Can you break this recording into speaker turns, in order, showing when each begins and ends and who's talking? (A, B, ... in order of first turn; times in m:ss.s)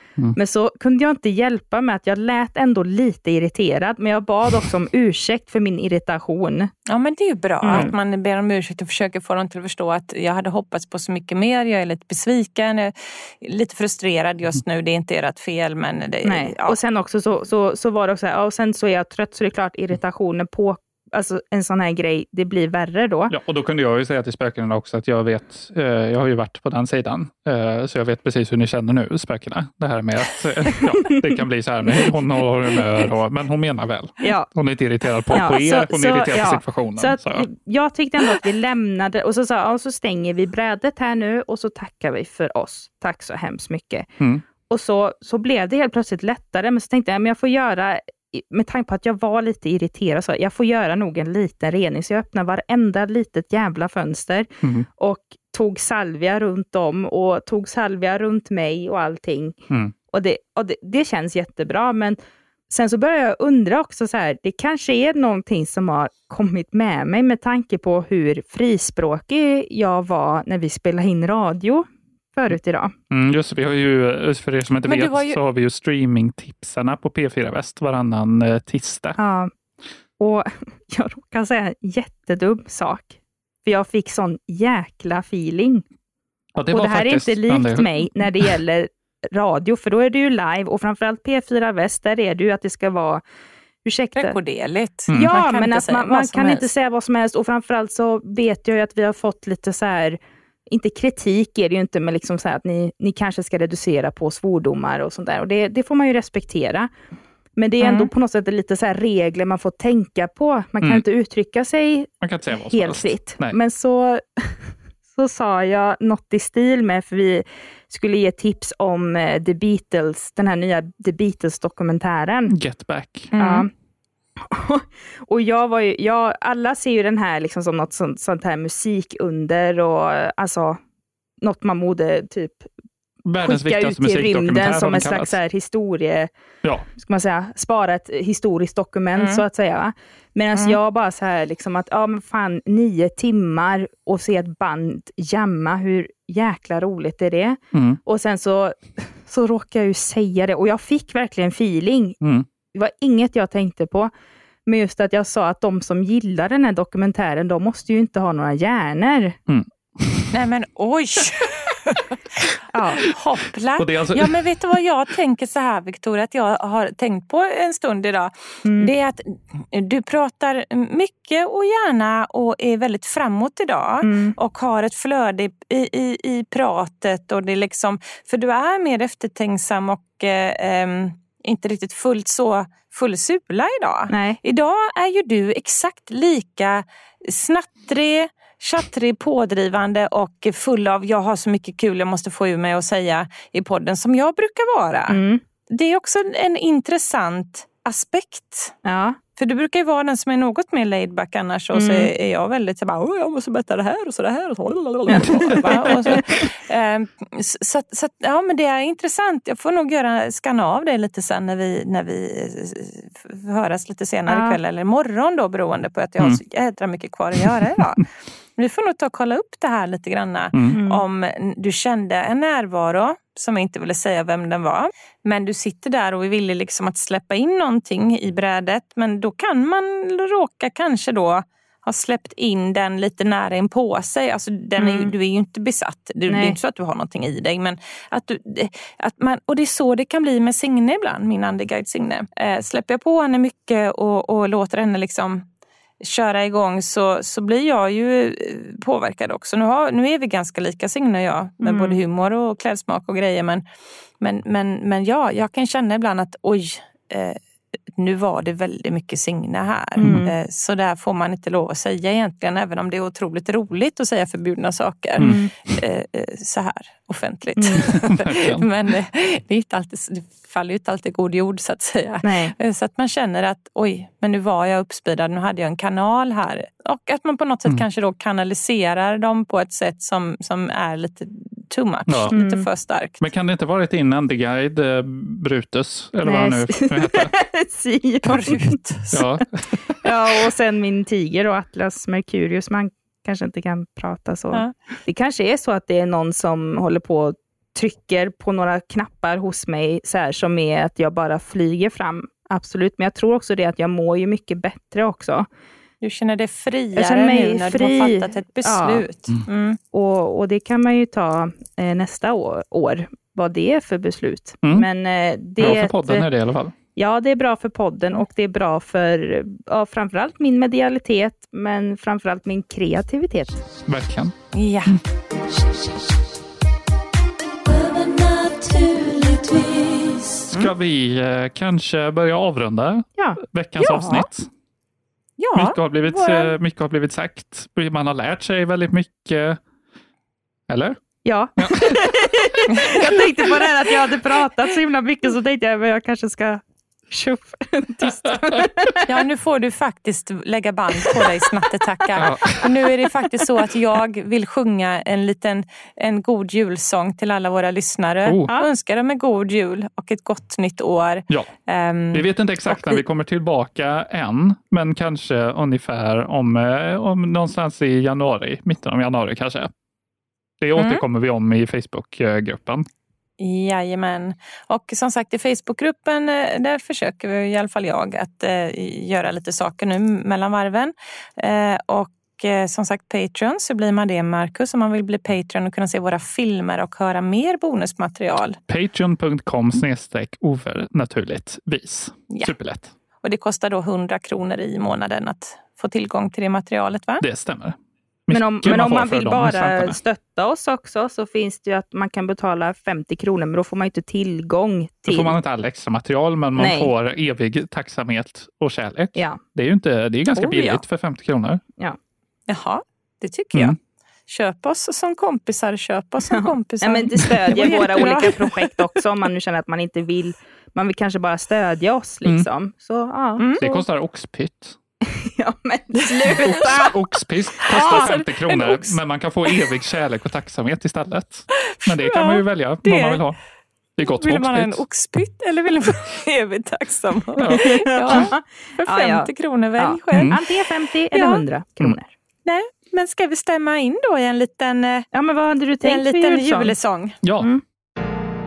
0:00.4-0:06.7 A
0:06.9-0:16.8 B
0:07.6-0:07.9 A
0:16.2-0:23.3 A
0:23.3-0:37.5 C
0:31.9-0:32.1 A
0:32.8-0:33.0 A
0:34.2-0:34.5 A
0:35.3-0:44.1 A
0:44.7-0:59.6 A
1:00.1-1:12.9 A
1:13.1-1:19.2 C
1:14.9-1:15.4 B
1:19.2-1:19.5 A
1:20.2-1:25.8 A
1:26.6-1:28.5 C
1:26.7-1:33.2 A
1:33.8-1:34.4 A
1:34.2-1:36.7 B
1:35.1-1:35.3 C
1:35.1-1:46.9 A
1:47.6-2:02.5 A
1:47.8-1:48.1 B
1:52.2-1:53.6 C
2:02.5-2:03.3 C
2:03.3-2:03.7 B
2:03.4-2:03.7 A
2:04.4-2:10.8 A
2:11.4-2:12.7 A
2:13.3-2:15.4 C
2:13.4-2:16.3 A
2:17.0-2:32.2 A
2:19.2-2:19.4 B
2:27.7-2:28.0 C
2:32.7-2:34.1 A
2:34.7-2:39.4 A
2:39.5-2:40.3 C
2:40.3-2:42.0 B
2:42.7-2:43.0 A
2:43.0-3:18.8 B
2:43.8-2:44.5 C
2:48.6-2:48.9 A
2:54.0-2:54.4 A
3:04.1-3:04.4 A
3:15.1-3:15.4 A
3:18.8-3:19.2 A
3:19.4-3:38.0 B
3:21.7-3:22.1 A
3:25.1-3:26.1 A
3:25.2-3:25.6 C
3:34.3-3:34.6 A
3:38.6-4:05.4 B
3:40.7-3:41.0 A
3:54.8-3:55.1 A
3:56.3-3:56.6 A
4:06.0-4:13.6 B
4:11.6-4:12.0 A
4:14.2-4:17.4 B
4:18.0-4:43.2 B
4:20.0-4:20.3 A
4:20.0-4:20.3 C
4:25.2-4:25.5 A
4:27.6-4:27.8 A
4:28.0-4:28.7 C
4:32.2-4:32.5 A
4:42.1-4:42.4 C
4:42.3-4:42.7 A
4:43.2-4:47.3 C
4:46.2-4:48.7 A
4:48.2-4:49.3 B
4:49.1-4:50.1 C
4:50.0-5:05.5 A
5:06.0-5:09.8 B
5:07.0-5:09.1 A
5:09.9-5:16.3 A
5:15.6-5:16.7 C
5:17.0-5:23.6 A
5:23.9-5:24.3 C
5:24.5-5:25.0 B
5:25.4-5:26.2 D
5:27.6-5:30.5 D
5:30.5-5:34.5 C
5:33.8-5:34.3 B
5:35.4-5:36.5 B
5:35.6-5:39.6 C
5:40.7-5:41.0 C
5:41.2-5:49.1 A
5:41.6-5:42.0 C
5:48.3-5:48.7 C
5:49.1-6:03.0 B
5:51.0-5:51.3 A
5:52.2-5:52.7 C
5:58.3-5:58.5 C
6:02.1-6:09.7 C
6:10.6-6:12.9 C
6:10.8-6:11.0 B
6:13.4-6:28.6 B
6:28.7-6:32.9 C
6:33.2-6:37.2 B
6:37.2-6:37.8 C
6:38.3-6:40.0 C
6:38.3-6:45.4 A
6:45.1-6:51.6 C
6:46.6-6:46.9 A
6:49.2-6:49.4 A
6:50.3-6:50.8 A
6:52.5-6:53.8 B
6:54.3-6:58.8 B
6:56.3-7:03.5 A
7:03.4-7:03.8 B
7:03.6-7:04.8 C
7:05.0-7:06.9 A
7:06.4-7:13.4 C
7:07.7-7:09.0 B
7:07.7-7:08.1 A
7:11.6-7:13.2 B
7:14.0-7:14.8 C
7:14.0-7:20.4 B
7:17.4-7:18.3 C
7:17.5-7:22.1 A
7:21.1-7:21.4 B
7:22.5-7:25.1 B
7:25.1-7:26.8 A
7:25.8-7:27.2 B
7:27.2-7:27.5 C